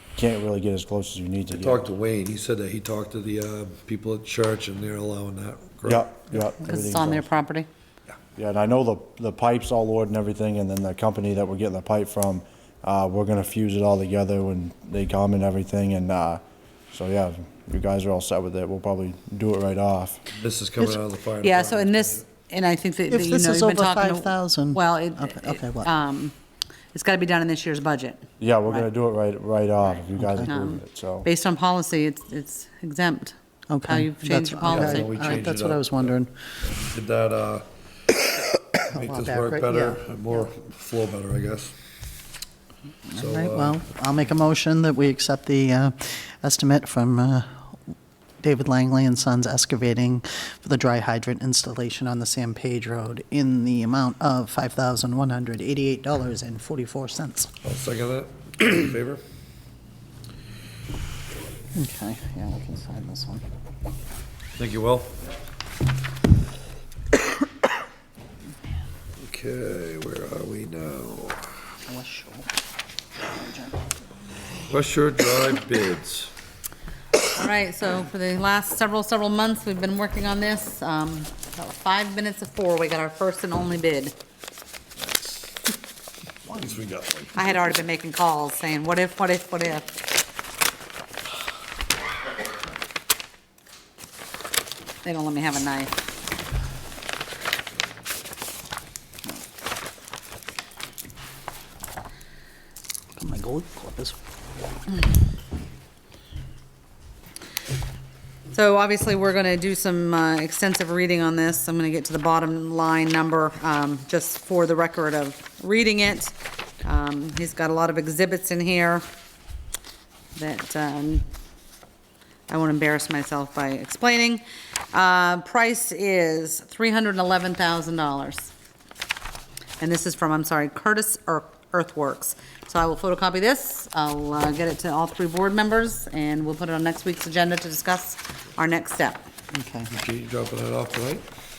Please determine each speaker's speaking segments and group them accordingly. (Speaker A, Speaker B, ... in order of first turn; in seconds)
Speaker A: 0.2-1.9, 5.8-7.4, 8.4-20.2, 28.4-31.3
Speaker B: 1.5-6.1, 20.3-22.2, 34.6-41.7, 43.1-43.8, 57.6-59.2, 64.6-65.2, 69.2-71.7, 74.7-76.3, 85.0-85.7, 86.5-87.6, 139.9-141.3
Speaker C: 6.6-7.7, 21.4-26.3, 26.9-28.2, 30.4-33.4, 33.9-35.4, 77.3-84.2, 87.3-89.9, 95.0-95.9, 108.5-119.1, 120.4-121.3, 122.5-128.5, 129.8-139.3
Speaker D: 23.1-25.9, 30.2-30.5, 33.7-36.3, 38.9-40.0, 43.1-47.7, 48.4-57.5, 61.7-63.4, 71.9-72.5, 73.3-73.8, 103.2-104.2, 139.5-140.0